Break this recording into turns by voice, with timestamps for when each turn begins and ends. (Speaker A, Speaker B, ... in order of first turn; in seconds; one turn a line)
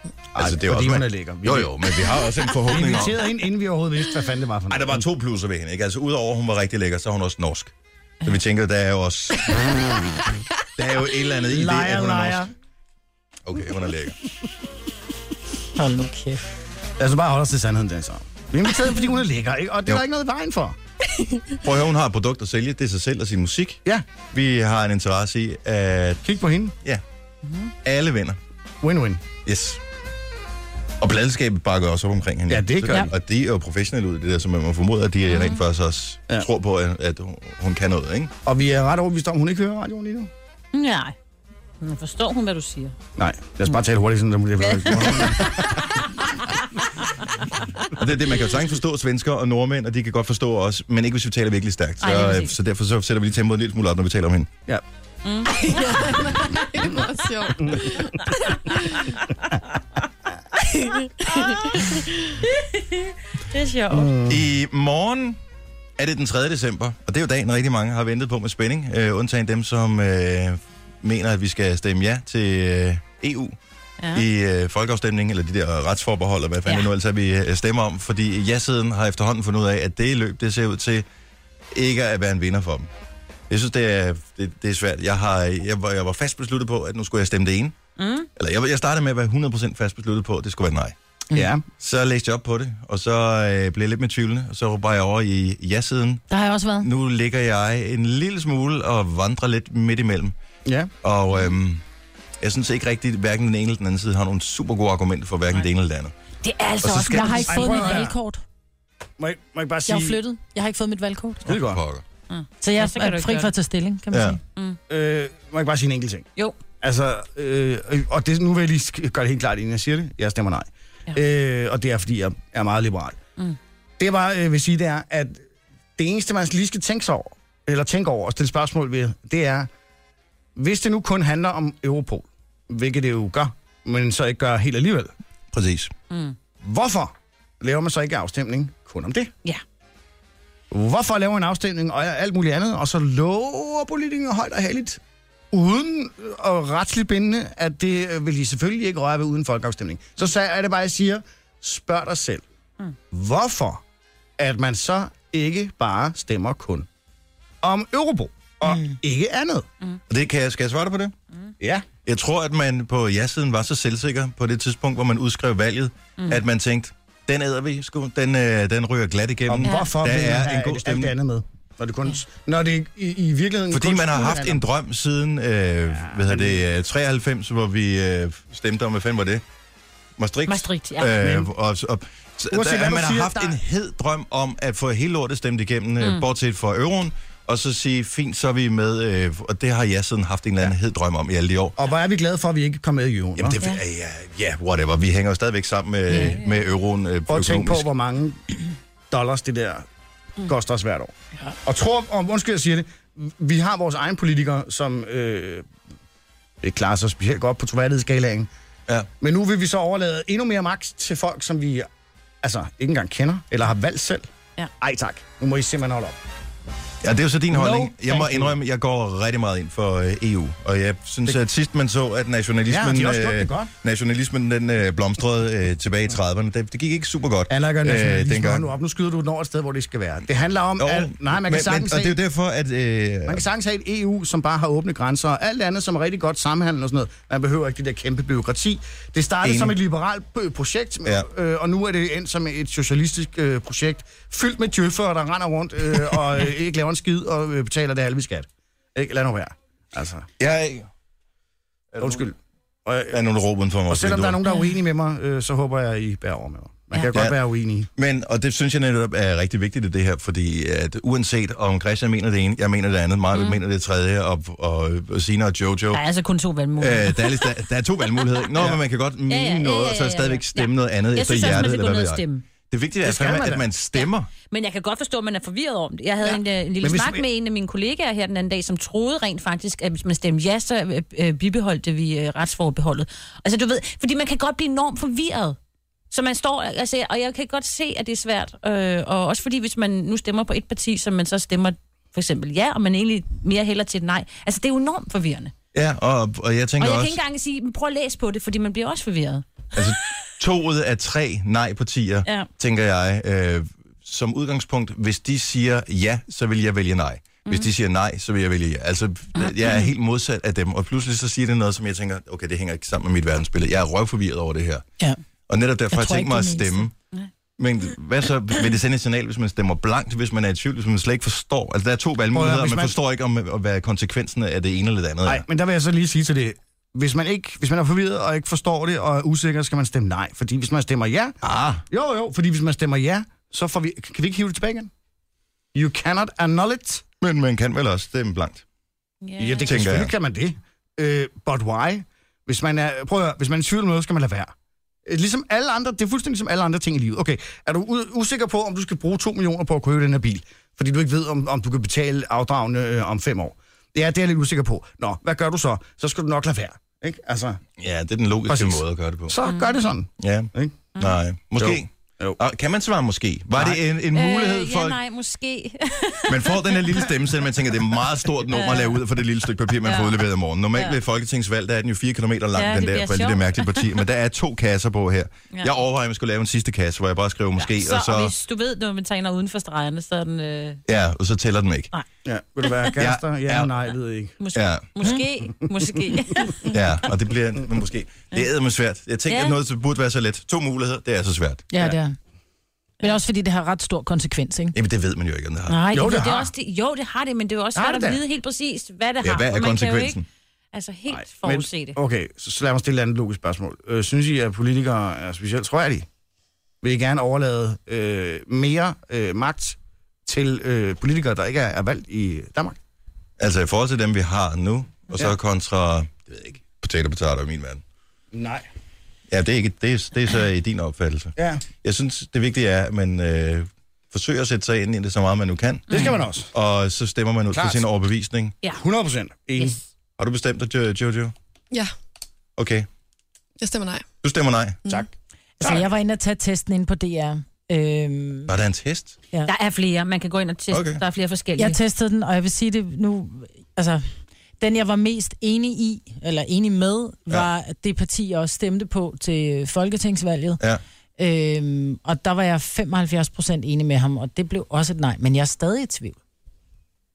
Speaker A: 0.3-2.0
Speaker B: 0.3-3.3
Speaker A: 2.6-5.0
Speaker B: 4.7-7.7
Speaker B: 8.2-10.2
Speaker B: 10.8-12.4
Speaker A: 11.5-12.5
Speaker B: 13.4-14.2
Speaker C: 15.7-16.4
Speaker A: 17.0-20.8
Speaker B: 21.6-26.2
Speaker A: 26.2-26.7
Speaker D: 27.4-27.7
Speaker B: 27.8-28.4
Speaker A: 28.8-29.2
Speaker B: 29.4-29.8
Speaker B: 31.0-38.3
Speaker A: 32.5-33.1
Speaker D: 35.2-35.6
Speaker A: 38.4-40.3
Speaker D: 40.7-41.1
Speaker D: 41.8-42.9
Speaker A: 43.2-45.8
Speaker D: 44.6-45.8
Speaker B: 47.9-54.5
Speaker D: 52.0-52.5
Speaker D: 55.2-56.3
Speaker E: 55.6-59.0
Speaker A: 57.6-57.9
Speaker D: 58.9-59.2
Speaker E: 61.2-62.0
Speaker D: 61.2-64.2
Speaker A: 63.9-64.5
Speaker B: 64.3-65.4
Speaker B: 66.0-73.5
Speaker D: 74.0-74.2
Speaker B: 74.1-81.0
Speaker B: 81.7-82.9
Speaker B: 83.5-87.8
Speaker D: 88.0-88.3
Speaker B: 88.3-90.9
Speaker A: 91.3-91.6
Speaker B: 91.8-96.2
Speaker C: 96.3-96.9
Speaker B: 96.8-100.3
Speaker A: 100.6-100.9
Speaker B: 101.0-101.8
Speaker B: 102.4-106.1
Speaker D: 106.4-107.8
Speaker C: 106.7-108.4
Speaker B: 106.8-107.6
Speaker A: 107.5-108.1
Speaker A: 109.2-110.2
Speaker C: 109.9-111.5
Speaker A: 111.5-111.8
Speaker B: 111.5-112.0
Speaker D: 112.3-113.5
Speaker C: 112.6-114.4
Speaker B: 114.1-114.4
Speaker A: 114.9-116.2
Speaker A: 116.8-123.2
Speaker A: 124.0-125.4
Speaker A: 126.0-129.7
Speaker A: 130.6-135.1
Speaker B: 135.5-135.9
Speaker D: 136.1-136.3
Speaker A: 136.6-139.3
Speaker A: 140.7-152.4
Speaker A: 153.1-153.8
Speaker A: 154.4-156.9
Speaker A: 157.6-159.7
Speaker B: 160.1-161.1
Speaker A: 161.6-161.9
Speaker B: 162.0-171.1
Speaker A: 169.4-174.6
Speaker D: 169.6-169.9
Speaker B: 173.7-179.4
Speaker A: 175.9-176.6
Speaker B: 180.2-191.8
Speaker D: 180.5-181.1
Speaker A: 181.2-181.5
Speaker A: 182.5-183.6
Speaker D: 186.0-186.2
Speaker A: 191.8-193.6
Speaker B: 193.4-197.9
Speaker D: 196.1-196.7
Speaker A: 197.3-198.4
Speaker A: 199.1-199.8
Speaker A: 200.4-201.1
Speaker A: 201.6-205.7
Speaker A: 206.6-208.5
Speaker A: 209.2-211.9
Speaker A: 212.4-214.3
Speaker A: 214.8-216.2
Speaker B: 217.0-228.7
Speaker A: 217.5-218.6
Speaker A: 222.7-223.7
Speaker A: 227.5-232.2
Speaker B: 230.8-233.4
Speaker A: 233.3-250.3
Speaker B: 239.4-239.7
Speaker B: 250.4-250.9
Speaker B: 251.9-252.2
Speaker A: 252.0-253.2
Speaker B: 253.1-254.4
Speaker A: 253.9-257.9
Speaker B: 257.9-266.0
Speaker D: 263.3-263.6
Speaker D: 265.9-268.4
Speaker B: 266.8-274.3
Speaker D: 269.3-272.4
Speaker A: 273.0-273.7
Speaker D: 273.9-285.6
Speaker A: 276.2-277.2
Speaker D: 286.1-295.5
Speaker B: 295.7-297.2
Speaker D: 296.8-299.9
Speaker B: 299.7-314.8
Speaker D: 309.4-309.9
Speaker B: 315.5-316.9
Speaker C: 315.9-316.9
Speaker B: 317.6-325.4
Speaker A: 322.3-322.9
Speaker A: 325.2-331.4
Speaker B: 331.4-331.8
Speaker A: 331.9-334.9
Speaker A: 335.7-337.0
Speaker B: 337.2-338.6
Speaker D: 339.2-339.7
Speaker A: 339.4-344.5
Speaker B: 339.6-340.1
Speaker A: 345.1-357.6
Speaker B: 357.8-359.4
Speaker A: 358.5-360.8
Speaker D: 359.4-359.7
Speaker B: 360.2-365.0
Speaker A: 361.6-362.4
Speaker D: 364.1-367.2
Speaker B: 366.3-378.3
Speaker D: 368.4-369.0
Speaker D: 369.8-371.0
Speaker D: 372.6-374.0
Speaker D: 375.5-375.8
Speaker D: 377.6-380.8
Speaker B: 380.9-381.9
Speaker A: 382.2-384.4
Speaker D: 382.6-382.9
Speaker B: 382.9-383.7
Speaker D: 384.4-387.0
Speaker B: 384.5-385.1
Speaker B: 386.6-391.6
Speaker D: 389.3-389.6
Speaker C: 391.7-392.1
Speaker C: 393.0-394.8
Speaker B: 394.7-395.8
Speaker D: 395.7-400.2
Speaker A: 395.9-396.5
Speaker A: 397.7-398.2
Speaker B: 399.2-400.2
Speaker D: 400.7-402.0
Speaker A: 401.1-406.1
Speaker A: 406.8-412.8
Speaker B: 413.4-417.8
Speaker A: 418.3-418.6
Speaker B: 419.3-428.5
Speaker A: 421.4-421.6
Speaker A: 425.9-426.5
Speaker A: 427.5-427.9
Speaker A: 428.8-429.8
Speaker B: 430.2-431.3
Speaker B: 432.6-432.9
Speaker E: 433.6-434.0
Speaker B: 434.2-434.8
Speaker A: 435.6-435.9
Speaker C: 435.6-438.5
Speaker B: 438.5-439.2
Speaker D: 439.4-441.8
Speaker B: 440.7-441.0
Speaker C: 441.6-444.0
Speaker C: 444.6-450.6
Speaker C: 451.2-456.2